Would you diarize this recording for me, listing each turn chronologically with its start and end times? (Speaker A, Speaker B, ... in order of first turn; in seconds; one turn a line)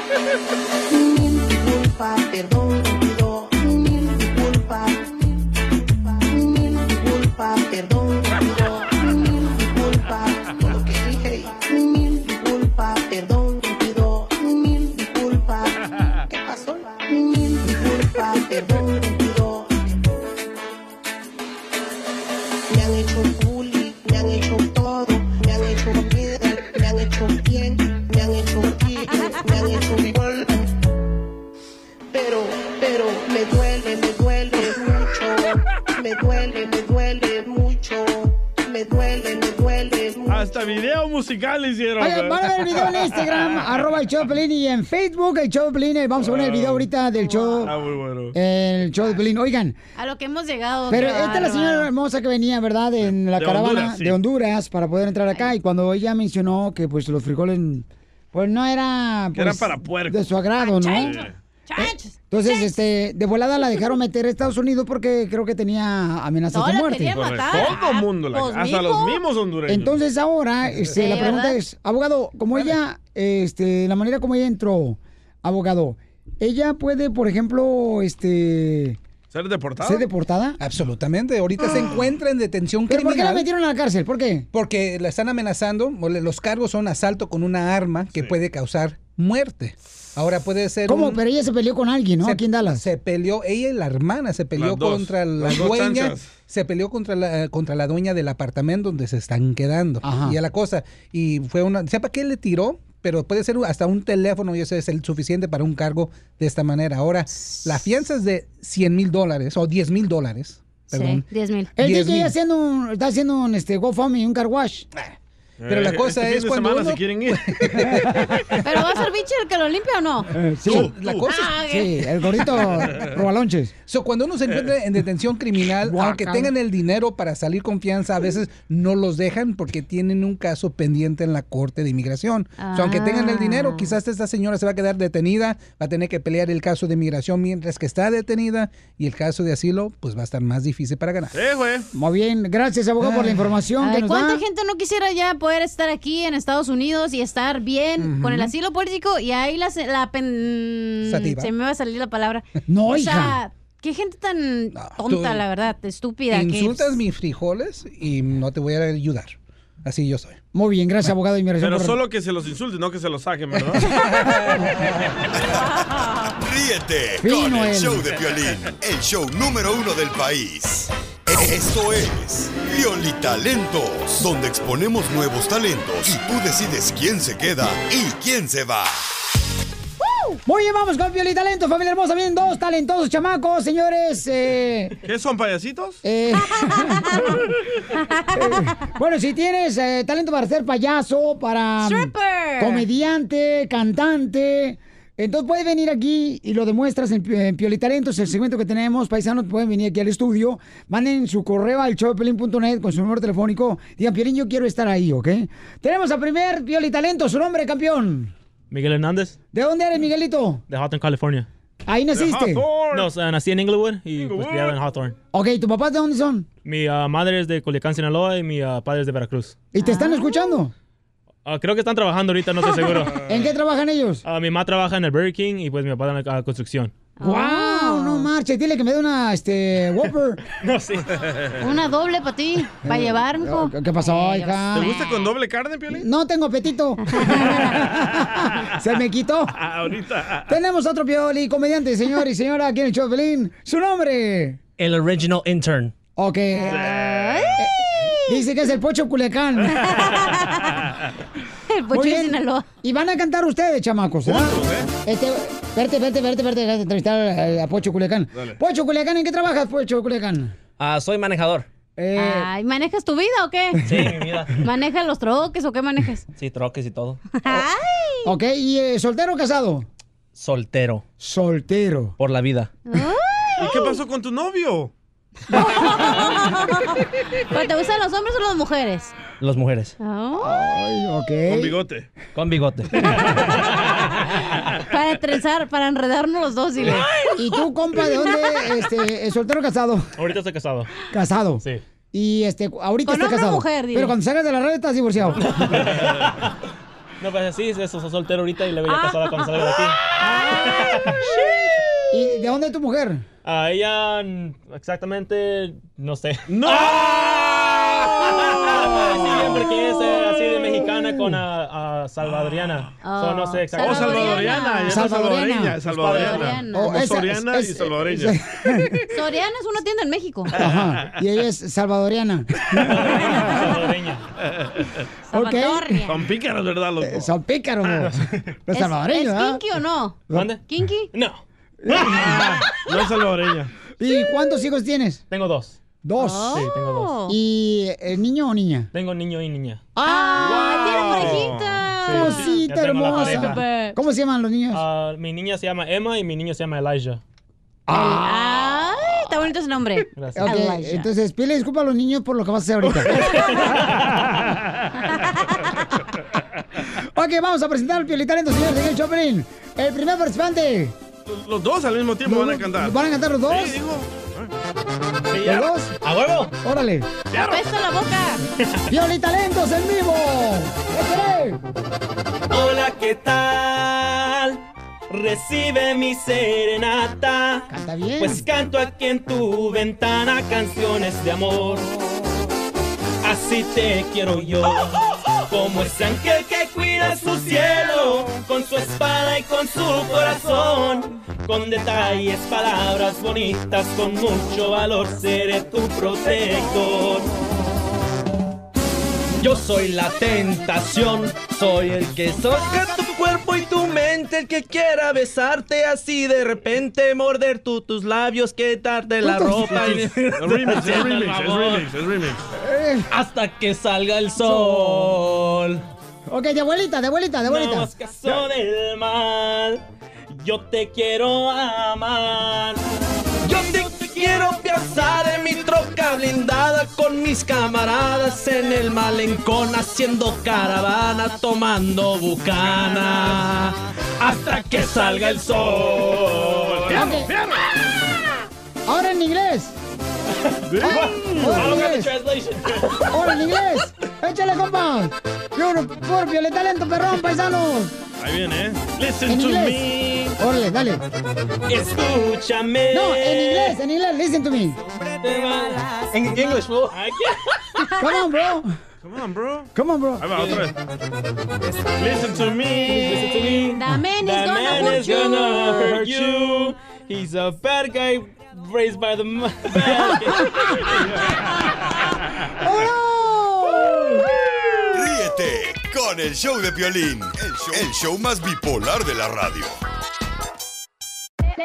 Speaker A: 0.9-19.7
Speaker A: 22.7-30.7
Speaker A: 32.1-40.9
Speaker B: 40.3-43.4
Speaker C: 42.0-47.7
Speaker B: 46.2-46.9
Speaker D: 47.1-47.7
Speaker B: 47.6-48.3
Speaker C: 48.3-49.8
Speaker D: 50.0-51.9
Speaker C: 50.9-61.1
Speaker B: 53.0-54.2
Speaker B: 59.3-60.2
Speaker D: 60.6-61.2
Speaker B: 61.0-61.3
Speaker D: 61.7-62.8
Speaker C: 61.8-67.1
Speaker D: 63.6-63.8
Speaker D: 66.5-69.2
Speaker B: 67.1-70.0
Speaker C: 69.7-79.0
Speaker D: 70.9-71.6
Speaker B: 79.3-80.1
Speaker C: 79.8-80.6
Speaker E: 80.6-83.5
Speaker C: 82.8-84.5
Speaker E: 84.5-91.2
Speaker C: 90.8-92.8
Speaker E: 92.2-111.2
Speaker B: 94.5-96.3
Speaker C: 100.0-100.4
Speaker D: 110.9-111.7
Speaker C: 111.8-114.9
Speaker E: 111.8-112.3
Speaker B: 115.6-117.9
Speaker E: 115.7-118.2
Speaker D: 118.6-120.3
Speaker C: 120.3-120.9
Speaker E: 120.6-121.6
Speaker B: 120.7-121.3
Speaker D: 121.2-121.9
Speaker C: 121.7-123.7
Speaker E: 123.9-141.4
Speaker C: 125.8-126.5
Speaker D: 132.6-133.9
Speaker B: 141.3-141.9
Speaker C: 141.9-144.4
Speaker E: 143.0-143.5
Speaker D: 143.8-157.0
Speaker E: 148.0-148.5
Speaker E: 151.1-151.5
Speaker C: 152.7-153.4
Speaker E: 154.7-155.4
Speaker E: 156.3-160.3
Speaker C: 160.5-162.0
Speaker B: 161.6-163.9
Speaker E: 163.8-164.6
Speaker D: 166.0-166.3
Speaker F: 166.3-179.0
Speaker C: 167.2-168.0
Speaker B: 168.2-168.7
Speaker C: 180.4-184.9
Speaker B: 185.0-186.0
Speaker C: 186.0-187.4
Speaker D: 186.4-187.1
Speaker D: 188.0-188.7
Speaker C: 188.3-208.3
Speaker D: 191.8-192.9
Speaker G: 208.7-209.3
Speaker C: 209.5-210.6
Speaker G: 210.7-211.5
Speaker C: 211.9-212.7
Speaker B: 212.1-213.1
Speaker G: 212.9-215.2
Speaker B: 214.2-214.8
Speaker C: 215.3-216.5
Speaker G: 216.6-219.6
Speaker C: 219.7-220.7
Speaker D: 219.7-220.6
Speaker G: 221.4-223.2
Speaker C: 223.2-224.2
Speaker G: 224.2-226.9
Speaker D: 227.2-228.3
Speaker C: 227.2-230.4
Speaker G: 230.6-231.1
Speaker D: 231.6-235.3
Speaker C: 232.8-234.9
Speaker B: 234.7-236.1
Speaker C: 235.9-239.5
Speaker D: 237.0-237.8
Speaker B: 239.6-240.4
Speaker C: 240.5-244.6
Speaker H: 244.8-245.9
Speaker C: 246.2-247.0
Speaker D: 246.5-248.5
Speaker B: 246.7-247.5
Speaker C: 248.3-249.9
Speaker D: 249.6-250.8
Speaker D: 251.7-252.7
Speaker C: 251.9-260.5
Speaker B: 254.2-254.9
Speaker H: 260.8-261.7
Speaker C: 262.0-262.5
Speaker D: 262.1-263.9
Speaker C: 263.8-264.1
Speaker H: 263.9-264.6
Speaker D: 264.6-266.2
Speaker H: 266.4-267.2
Speaker D: 267.3-268.3
Speaker C: 268.2-269.9
Speaker H: 270.4-271.0
Speaker C: 271.2-272.1
Speaker H: 272.2-272.7
Speaker D: 272.9-273.7
Speaker B: 273.6-274.9
Speaker D: 275.5-279.1
Speaker H: 279.4-279.9
Speaker D: 280.0-280.8
Speaker C: 280.4-281.8
Speaker B: 281.5-282.1
Speaker H: 282.3-283.1
Speaker D: 284.9-288.9
Speaker C: 287.4-290.1
Speaker G: 290.2-290.9
Speaker C: 291.1-291.6
Speaker C: 292.1-295.7
Speaker D: 293.0-294.2
Speaker G: 295.5-296.5
Speaker G: 297.2-301.2
Speaker D: 298.8-299.6
Speaker D: 300.2-301.7
Speaker C: 302.1-303.2
Speaker G: 303.4-307.0
Speaker B: 306.5-309.3
Speaker G: 308.6-314.2
Speaker D: 313.0-315.0
Speaker B: 313.8-318.4
Speaker C: 314.9-315.9
Speaker D: 315.9-317.0
Speaker C: 316.7-318.9
Speaker D: 319.1-320.6
Speaker C: 320.6-323.1
Speaker G: 322.8-324.2
Speaker D: 325.3-326.3
Speaker C: 325.3-325.9
Speaker B: 326.0-327.3
Speaker C: 327.0-328.2
Speaker C: 328.7-329.6
Speaker D: 328.7-331.1
Speaker G: 330.3-330.6
Speaker G: 331.1-332.0
Speaker C: 331.8-332.5
Speaker B: 332.0-333.7
Speaker C: 334.0-335.2
Speaker G: 335.3-335.8
Speaker C: 336.0-336.6
Speaker D: 336.2-337.4
Speaker G: 336.5-337.1
Speaker C: 337.3-338.9
Speaker G: 338.9-339.9
Speaker C: 339.9-340.7
Speaker D: 340.0-344.0
Speaker B: 340.4-341.9
Speaker G: 342.1-343.6
Speaker C: 342.1-344.8
Speaker G: 344.7-347.2
Speaker C: 347.9-348.6
Speaker D: 347.9-351.1
Speaker G: 350.1-350.4
Speaker C: 350.4-353.5
Speaker D: 353.1-353.5
Speaker G: 353.3-354.2
Speaker D: 355.1-355.5
Speaker C: 357.1-360.9
Speaker B: 361.2-364.5
Speaker C: 362.2-363.8
Speaker G: 365.3-366.5
Speaker C: 365.4-366.0
Speaker C: 366.6-367.1
Speaker B: 367.3-367.6
Speaker D: 367.3-368.4
Speaker C: 368.9-371.6
Speaker G: 372.5-381.9
Speaker C: 377.7-378.4
Speaker G: 383.2-397.3
Speaker H: 399.4-411.2
Speaker C: 409.3-409.7
Speaker B: 409.8-412.4
Speaker G: 410.8-411.8
Speaker C: 412.6-413.1
Speaker H: 413.1-415.8
Speaker C: 414.4-415.1
Speaker C: 416.3-417.9
Speaker G: 417.4-422.8
Speaker H: 423.4-437.1
Speaker B: 435.5-437.2
Speaker C: 436.9-437.3
Speaker C: 438.9-439.8
Speaker B: 440.7-441.7
Speaker C: 440.8-442.2
Speaker H: 440.8-442.9
Speaker C: 443.1-447.9
Speaker B: 448.2-450.3
Speaker C: 449.2-451.0
Speaker G: 451.7-453.8
Speaker C: 452.9-454.8
Speaker G: 455.2-455.7
Speaker D: 455.7-456.0
Speaker H: 456.3-456.9
Speaker G: 457.0-457.3
Speaker C: 458.0-458.7
Speaker B: 459.0-460.7
Speaker C: 459.7-460.3
Speaker B: 461.9-463.0
Speaker D: 462.8-466.1
Speaker G: 462.8-470.5
Speaker C: 472.6-474.3
Speaker F: 474.9-479.8